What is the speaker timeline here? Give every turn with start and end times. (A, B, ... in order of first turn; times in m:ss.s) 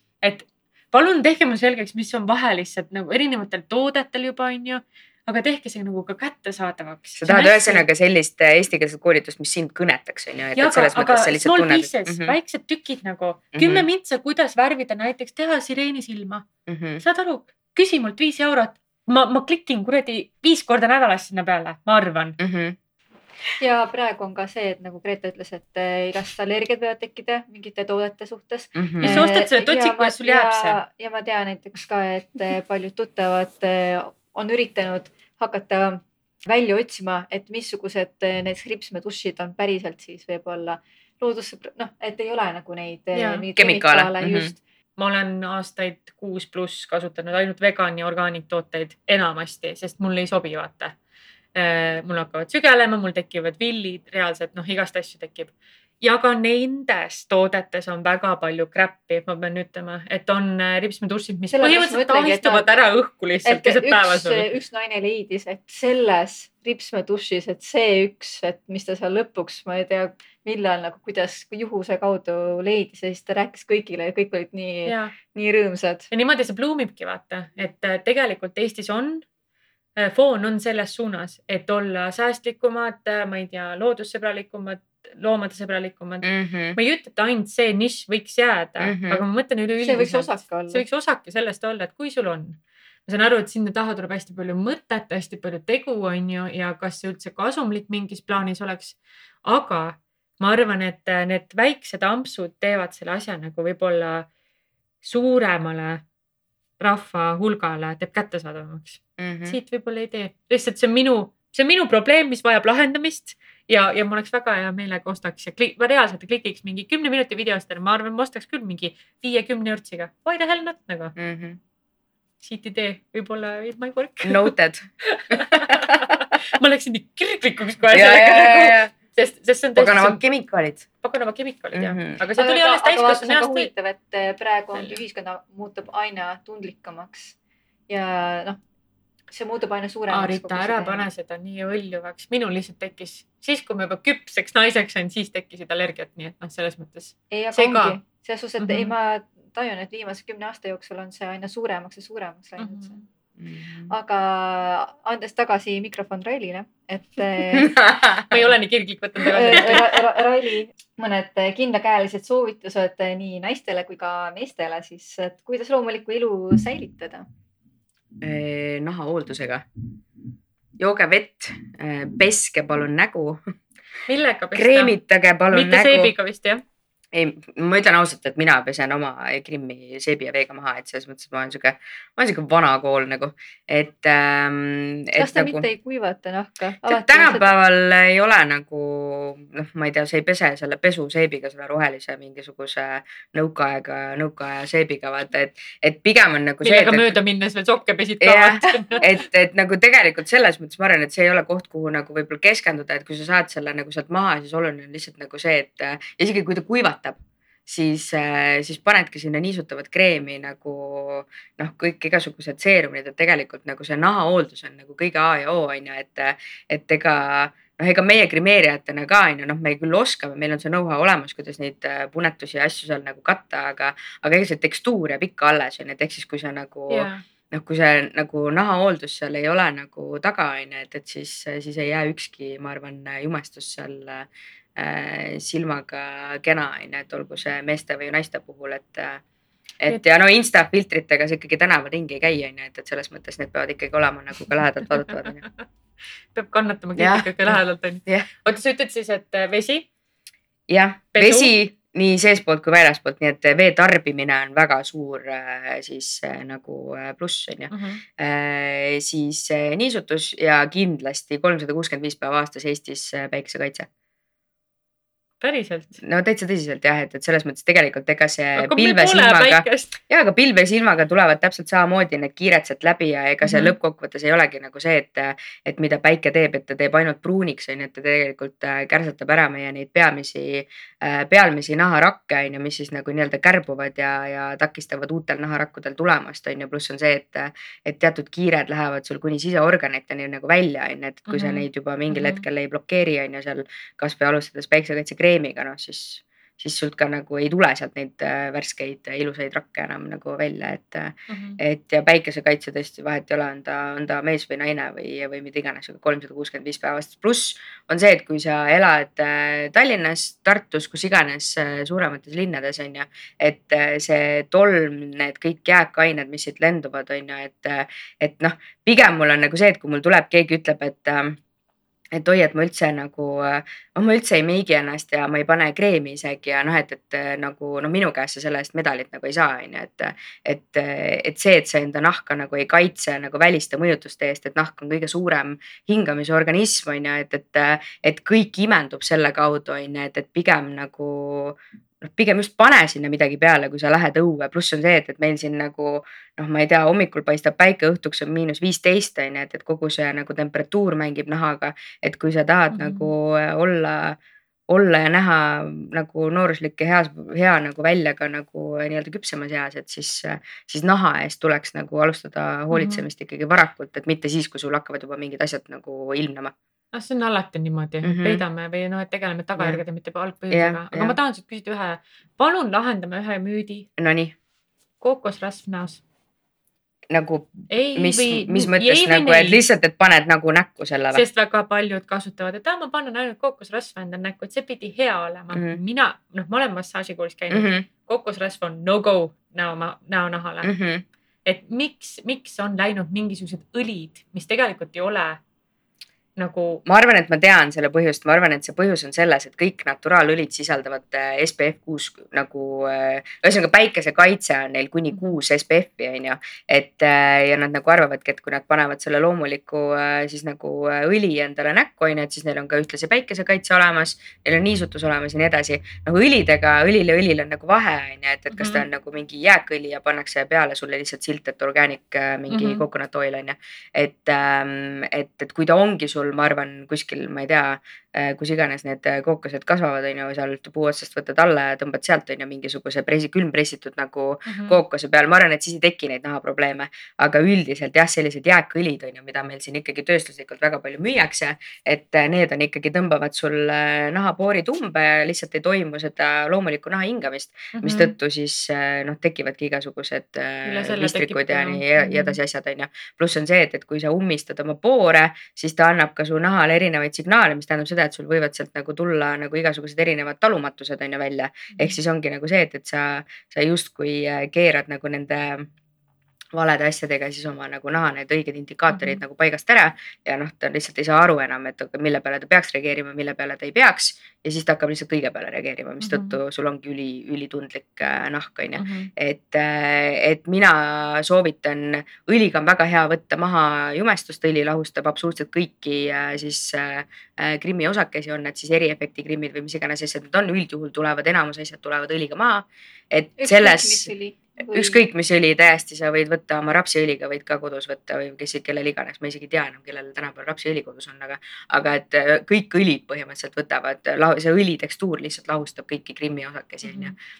0:00.2-0:07.8 A
0:07.2-0:12.4 B
0:10.6-0:16.4 A
0:13.5-0:13.9 B
0:16.6-0:17.0 B
0:17.0-0:22.4 A
0:22.4-0:22.8 B
0:23.6-0:44.6 C
0:28.7-0:29.2 B
0:29.0-0:30.8 A
0:43.1-0:43.4 A
0:43.6-0:44.5 B
0:45.0-0:50.9 A
0:51.5-1:04.5 A
1:01.5-1:02.7 C
1:03.4-1:16.1 C
1:14.8-1:15.1 A
1:16.1-1:19.2 A
1:20.0-1:44.3 A
1:26.2-1:26.8 B
1:28.8-1:29.2 B
1:29.8-1:30.8 C
1:45.0-1:46.0 A
1:46.8-2:01.1 A
1:49.2-1:49.6 B
2:01.2-2:01.6 B
2:02.4-2:10.2 A
2:04.2-2:06.2 B
2:07.9-2:08.9 B
2:09.8-2:10.8 B
2:11.0-2:13.7 A
2:11.7-2:12.2 B
2:12.4-2:17.3 C
2:17.9-2:18.6 C
2:19.3-2:21.1 C
2:20.1-2:28.0 A
2:27.3-2:33.0 C
2:28.6-2:28.9 A
2:32.6-2:33.0 A
2:33.4-2:33.9 B
2:33.9-2:37.8 C
2:37.5-2:38.4 B
2:38.3-2:40.1 A
2:39.2-2:47.2 C
2:48.2-2:49.6 B
2:50.8-2:53.4 B
2:54.1-2:54.9 A
2:54.5-2:56.1 B
2:55.5-2:56.6 A
2:57.1-3:05.6 B
3:05.1-3:07.5 C
3:06.8-3:17.2 B
3:16.6-3:19.1 A
3:18.2-3:59.2 B
3:46.9-3:47.2 A
3:59.8-4:05.4 B
4:06.3-4:09.8 A
4:07.0-4:08.3 B
4:10.7-4:23.9 B
4:11.1-4:11.5 A
4:17.7-4:18.0 A
4:25.4-4:26.0 A
4:26.0-5:21.4 B
4:28.6-4:30.0 A
4:33.4-4:33.7 A
4:51.3-4:52.4 A
5:01.3-5:01.6 A
5:22.1-5:54.2 B
5:52.7-5:53.1 A
5:54.7-6:06.5 B
6:02.7-6:03.0 A
6:06.9-6:13.9 A
6:08.0-6:08.4 B
6:10.5-6:11.2 B
6:14.0-6:14.4 B
6:15.0-6:16.0 A
6:17.1-6:21.2 B
6:17.7-6:19.6 A
6:21.1-6:30.7 A
6:25.5-6:25.8 B
6:27.5-6:27.8 B
6:30.6-6:31.0 B
6:31.4-6:35.4 A
6:36.4-6:36.8 A
6:36.8-7:45.7 B
6:58.5-6:58.8 A
7:02.5-7:02.8 A
7:14.5-7:14.8 A
7:27.7-7:28.1 A
7:30.6-7:32.4 A
7:46.5-8:14.1 B
7:48.9-7:49.2 A
7:56.0-7:56.4 A
7:58.8-7:59.1 A
8:13.4-8:15.0 C
8:14.7-8:27.2 B
8:26.8-8:27.1 A